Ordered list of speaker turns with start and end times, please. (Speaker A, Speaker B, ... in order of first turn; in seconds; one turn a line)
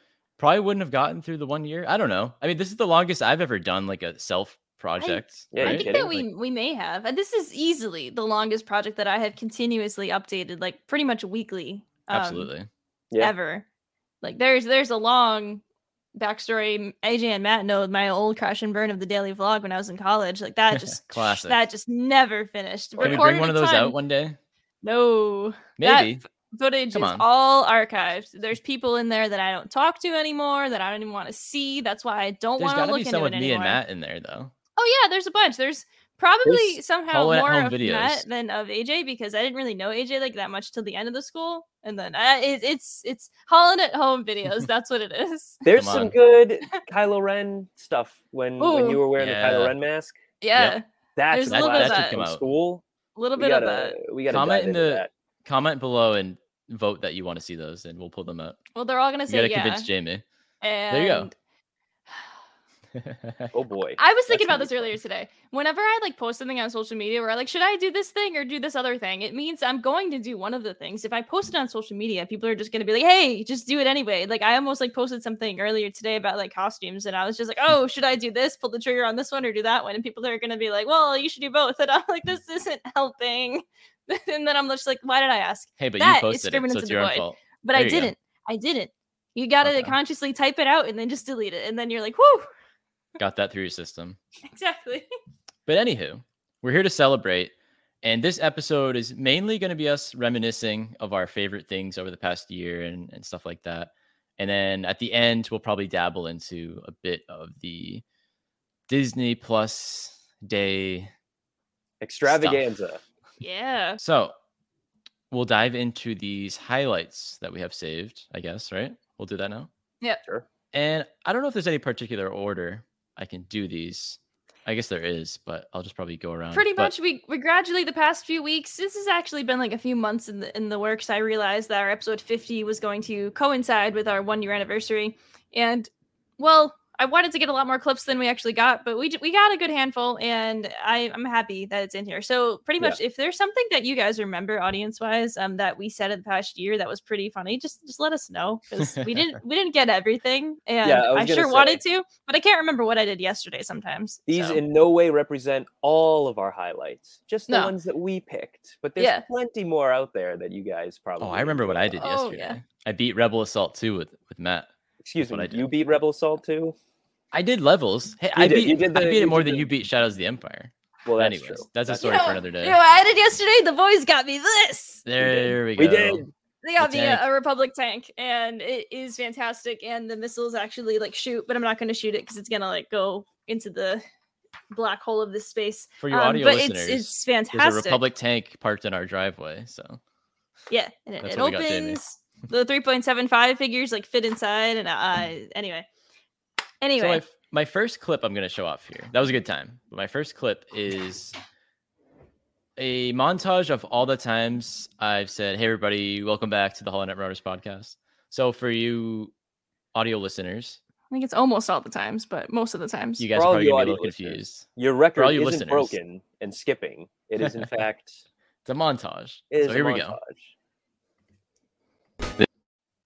Speaker A: 0.4-6.2
Speaker B: 5.0-12.5
Speaker C: 5.5-6.1
Speaker A: 12.1-12.7
Speaker B: 13.2-13.6
Speaker B: 14.2-15.6
Speaker B: 16.1-23.9
Speaker A: 20.8-21.6
Speaker C: 23.0-23.3
Speaker A: 23.0-24.4
Speaker B: 24.8-33.8
Speaker A: 25.8-26.2
Speaker A: 26.9-27.2
Speaker A: 32.6-34.5
Speaker B: 34.8-45.6
Speaker C: 36.4-36.8
Speaker A: 37.1-38.2
Speaker C: 45.6-50.2
Speaker A: 45.7-46.1
Speaker B: 48.6-49.0
Speaker A: 49.2-49.8
Speaker B: 50.4-52.2
Speaker A: 50.5-50.8
Speaker C: 51.1-52.8
Speaker A: 51.5-52.4
Speaker B: 53.1-54.0
Speaker C: 53.4-55.1
Speaker A: 54.3-58.6
Speaker B: 58.7-59.9
Speaker A: 59.3-60.2
Speaker B: 60.6-61.3
Speaker A: 60.9-61.3
Speaker A: 62.9-63.5
Speaker C: 63.5-65.0
Speaker B: 64.0-92.5
Speaker A: 85.8-88.1
Speaker A: 89.6-90.0
Speaker A: 93.2-94.2
Speaker B: 94.5-95.1
Speaker A: 95.7-97.5
Speaker A: 98.0-108.0
Speaker A: 108.9-111.1
Speaker C: 112.0-113.0
Speaker A: 112.2-112.6
Speaker B: 113.4-114.0
Speaker A: 114.0-114.3
Speaker A: 115.3-119.7
Speaker A: 120.7-126.9
Speaker B: 126.5-154.2
Speaker C: 150.8-151.8
Speaker C: 154.3-161.9
Speaker A: 154.3-154.6
Speaker B: 157.5-157.7
Speaker B: 159.0-159.2
Speaker A: 161.2-164.7
Speaker B: 162.0-162.6
Speaker C: 165.0-166.7
Speaker A: 165.3-165.7
Speaker A: 167.3-172.8
Speaker C: 168.3-169.7
Speaker C: 171.0-172.3
Speaker B: 172.0-175.0
Speaker A: 175.0-176.2
Speaker C: 175.2-176.3
Speaker B: 176.6-184.0
Speaker A: 176.8-177.2
Speaker B: 184.7-188.0
Speaker A: 186.0-190.0
Speaker B: 190.7-195.8
Speaker A: 191.2-192.0
Speaker B: 196.8-197.2
Speaker A: 197.0-201.3
Speaker A: 202.8-209.3
Speaker A: 209.9-210.8
Speaker B: 211.1-213.2
Speaker A: 213.2-215.9
Speaker C: 213.3-218.2
Speaker A: 217.4-217.7
Speaker A: 218.7-220.2
Speaker C: 219.5-220.5